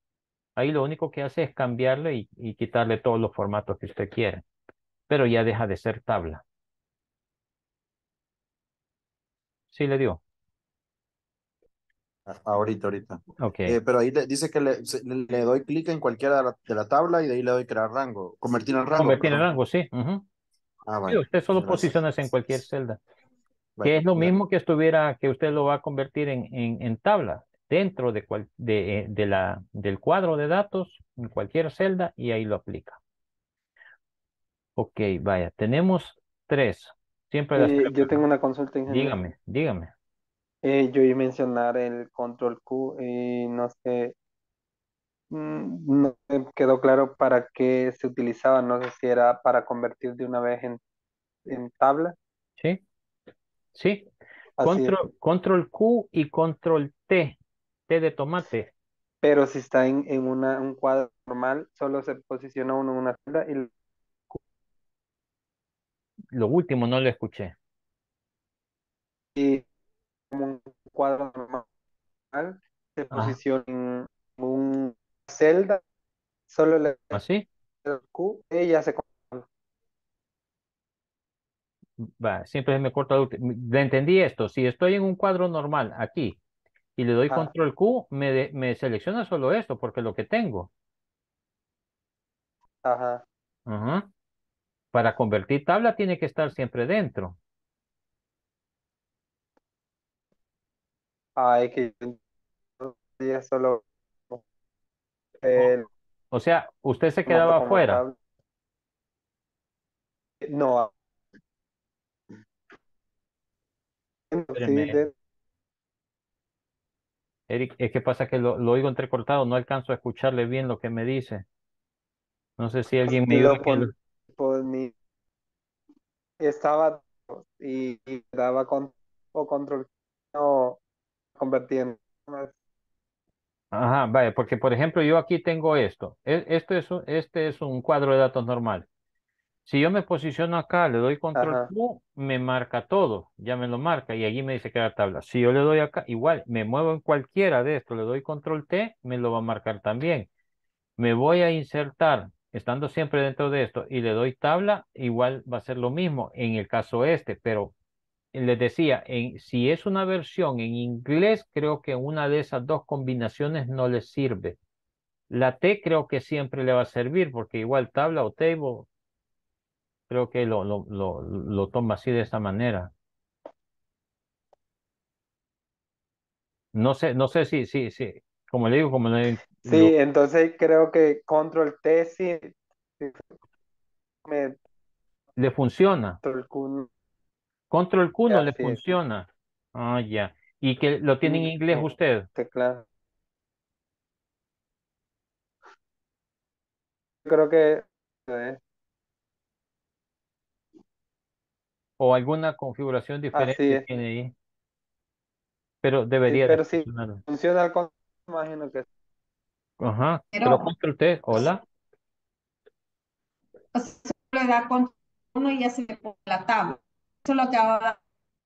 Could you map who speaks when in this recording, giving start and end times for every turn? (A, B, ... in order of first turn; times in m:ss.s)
0:00.6-0:04.4 A
0:05.1-0:06.4 A
0:09.7-0:10.2 A
0:12.3-0:19.4 B
0:13.4-0:13.8 A
0:18.9-0:20.2 A
0:20.9-0:21.9 B
0:21.1-0:23.0 A
0:23.8-0:24.3 B
0:23.8-0:33.0 A
0:34.8-0:38.2 A
0:37.5-0:39.1 C
0:38.9-0:39.9 A
0:40.6-0:44.1 C
0:45.3-0:50.8 C
0:51.4-0:52.2 C
0:53.7-0:54.1 A
0:54.6-0:55.0 C
0:54.6-0:57.4 A
0:57.9-0:58.7 A
0:59.2-1:03.7 C
1:06.3-1:07.6 A
1:09.4-1:09.6 C
1:10.3-1:11.7 C
1:12.3-1:15.8 C
1:16.5-1:17.2 C
1:17.1-1:17.5 A
1:17.8-1:19.4 C
1:22.0-1:26.4 A
1:27.0-1:30.7 A
1:32.8-1:33.2 C
1:33.7-1:34.1 A
1:34.9-1:37.4 A
1:41.4-1:42.2 C
1:42.8-1:44.4 C
1:45.4-1:45.9 C
1:46.3-1:48.0 A
1:47.3-1:48.2 C
1:50.4-1:50.9 C
1:54.3-1:55.1 C
1:54.5-1:55.0 A
1:57.5-2:01.4 A
2:02.6-2:03.9 A
2:03.1-2:04.9 C
2:06.4-2:10.8 C
2:11.4-2:12.6 C
2:13.7-2:18.9 A
2:19.6-2:30.3 A
2:21.4-2:21.7 C
2:31.0-2:37.7 A
2:38.3-2:44.6 A
2:45.3-2:48.9 A
2:50.1-2:52.9 A
2:56.7-2:59.9 A
2:59.6-3:03.2 C
3:04.2-3:04.6 C
3:05.4-3:06.2 A
3:06.2-3:06.9 C
3:07.7-3:12.3 A
3:08.3-3:08.9 C
3:11.2-3:12.8 C
3:17.2-3:18.6 C
3:22.0-3:24.3 A
3:23.3-3:23.8 C
3:25.8-3:27.2 A
3:26.3-3:28.8 C
3:29.8-3:31.6 A
3:30.3-3:30.7 D
3:33.7-3:38.0 D